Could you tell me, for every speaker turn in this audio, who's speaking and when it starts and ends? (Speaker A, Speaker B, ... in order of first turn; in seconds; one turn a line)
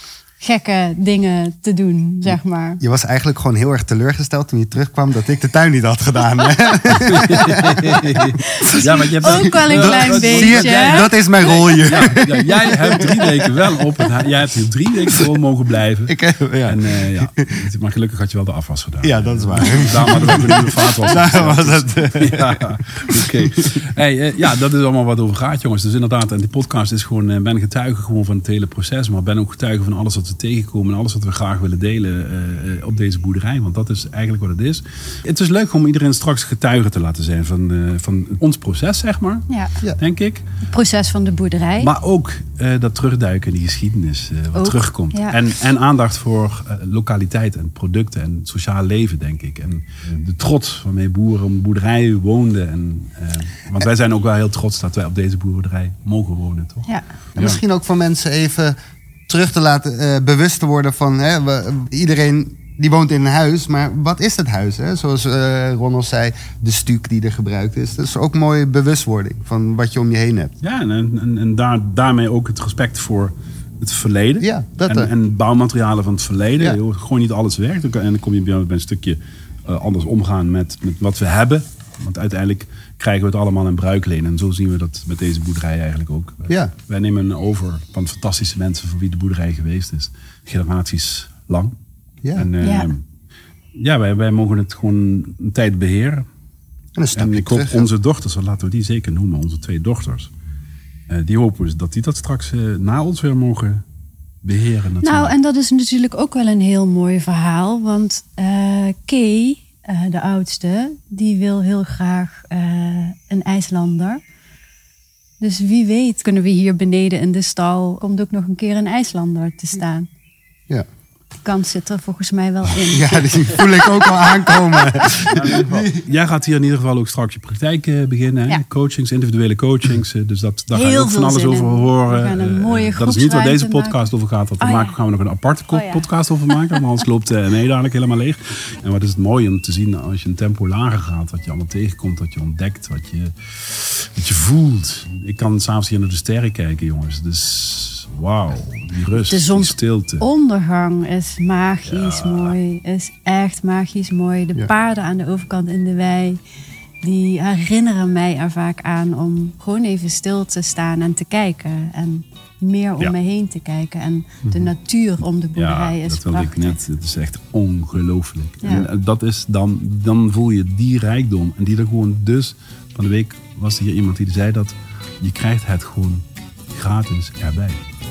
Speaker A: 0.4-2.8
Speaker B: 2.3-8.3
Speaker C: 6.9-39.5
Speaker A: 8.4-11.1
Speaker B: 9.7-13.9
Speaker B: 16.1-17.5
Speaker B: 19.0-22.6
Speaker B: 23.1-23.8
Speaker A: 39.5-39.8
Speaker C: 40.0-40.4
Speaker A: 40.6-41.9
Speaker C: 41.8-57.6
Speaker A: 44.5-45.4
Speaker B: 57.4-58.8
Speaker B: 59.3-70.5
Speaker C: 70.6-91.8
Speaker B: 74.4-75.1
Speaker B: 86.5-86.7
Speaker B: 92.2-92.5
Speaker C: 92.3-93.0
Speaker A: 92.6-92.9
Speaker C: 93.8-96.3
Speaker B: 97.0-97.9
Speaker C: 97.2-100.3
Speaker C: 101.1-103.8
Speaker C: 104.4-105.3
Speaker A: 105.0-114.2
Speaker A: 115.4-120.1
Speaker A: 121.4-123.2
Speaker B: 122.9-126.0
Speaker C: 125.3-150.2
Speaker A: 130.7-134.1
Speaker A: 134.6-134.9
Speaker A: 135.7-136.8
Speaker A: 149.2-156.4
Speaker C: 151.9-152.6
Speaker A: 157.0-166.8
Speaker B: 164.4-164.7
Speaker C: 165.6-177.8